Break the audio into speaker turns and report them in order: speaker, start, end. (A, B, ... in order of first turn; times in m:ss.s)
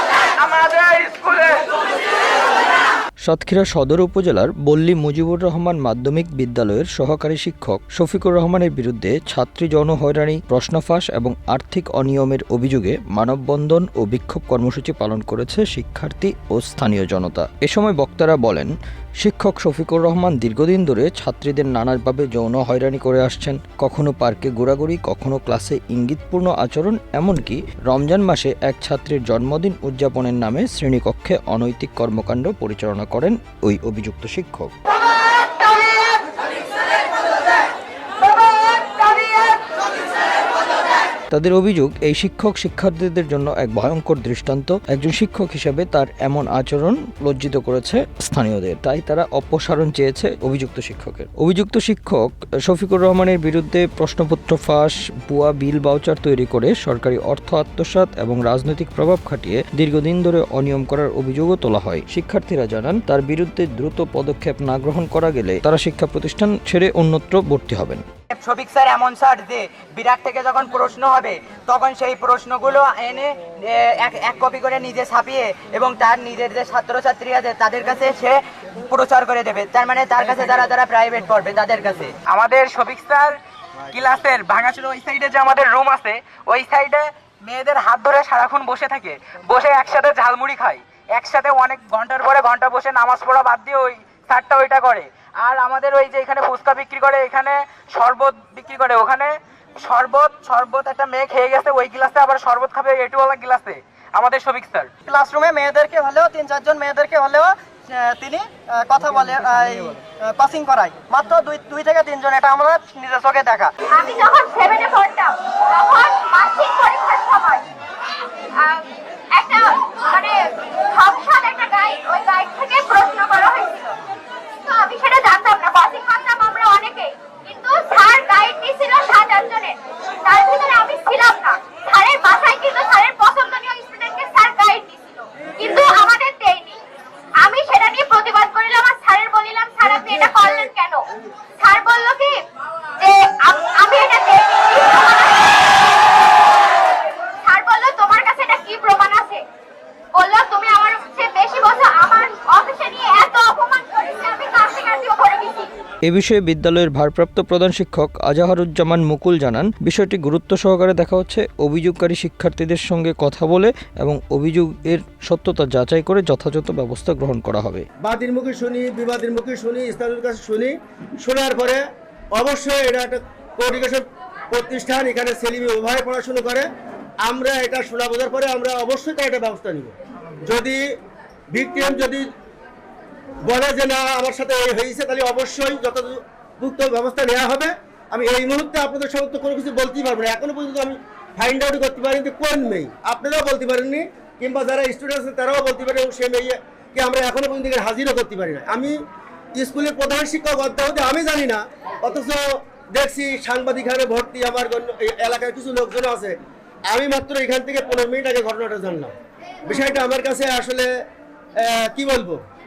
0:00.3-0:01.6 A
0:03.2-0:34.7 B
0:41.3-1:08.0 B
1:08.3-1:22.1 C
1:22.3-1:23.4 A
1:23.9-1:44.9 A
1:45.0-1:53.7 D
1:53.9-1:57.7 E
1:58.6-2:04.0 E
2:04.6-2:16.8 E
2:17.4-2:21.0 E
2:20.0-2:20.6 F
2:21.6-2:22.4 E
2:23.0-2:26.3 E
2:27.4-2:29.4 E
2:30.1-2:35.7 E
2:36.0-2:47.9 B
2:48.0-2:56.7 F
2:57.2-3:00.8 F
3:01.5-3:02.3 F
3:03.4-3:18.9 F
3:19.6-3:26.4 F
3:26.9-3:29.1 F
3:29.7-3:30.9 F
3:31.6-3:32.4 F